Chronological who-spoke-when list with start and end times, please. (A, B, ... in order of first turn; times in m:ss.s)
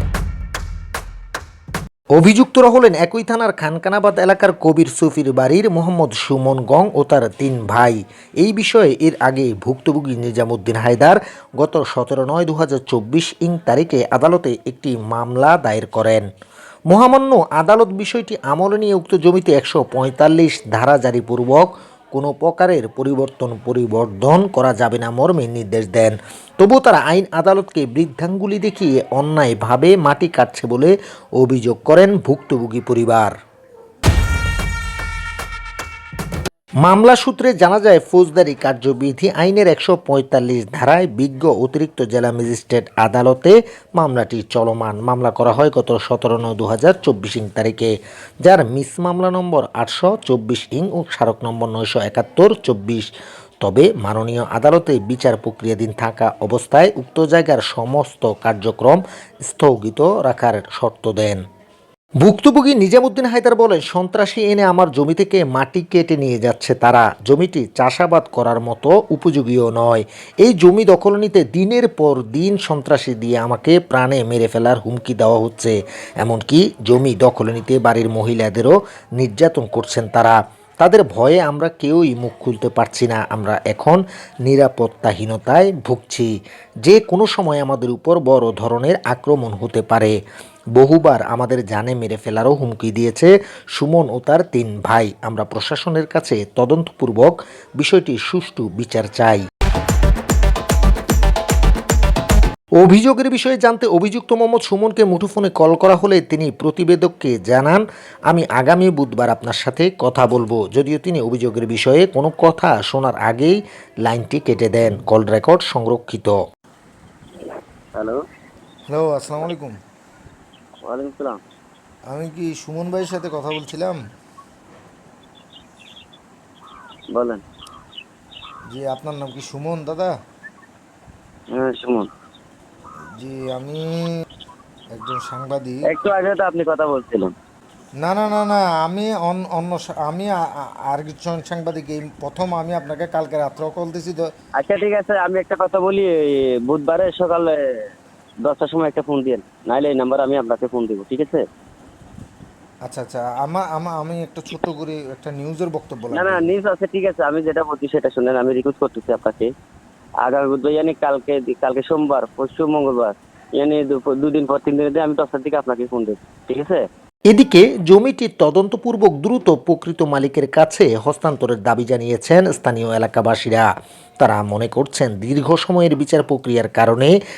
0:02.1-0:16.2 A
0:16.9-0:33.3 A
0:36.8-0:47.9 A
0:48.4-0:53.1 A
0:53.6-1:01.4 A
1:02.2-1:26.3 A
1:26.8-1:30.1 A
1:30.8-1:39.4 A
1:42.8-1:56.4 A
1:57.9-1:58.2 B
1:58.9-1:59.8 C
2:00.8-2:01.4 B
2:02.1-2:04.0 C
2:07.1-2:07.4 B
2:08.7-2:10.1 C
2:11.5-2:12.1 B
2:13.2-2:14.0 C
2:14.9-2:15.9 C
2:15.8-2:17.3 B
2:18.0-2:24.3 C
2:24.6-2:27.9 B
2:28.4-2:31.4 B
2:32.8-2:36.5 C
2:36.1-2:39.5 B
2:40.2-2:46.8 B
2:47.3-2:53.7 A
2:54.2-2:57.2 A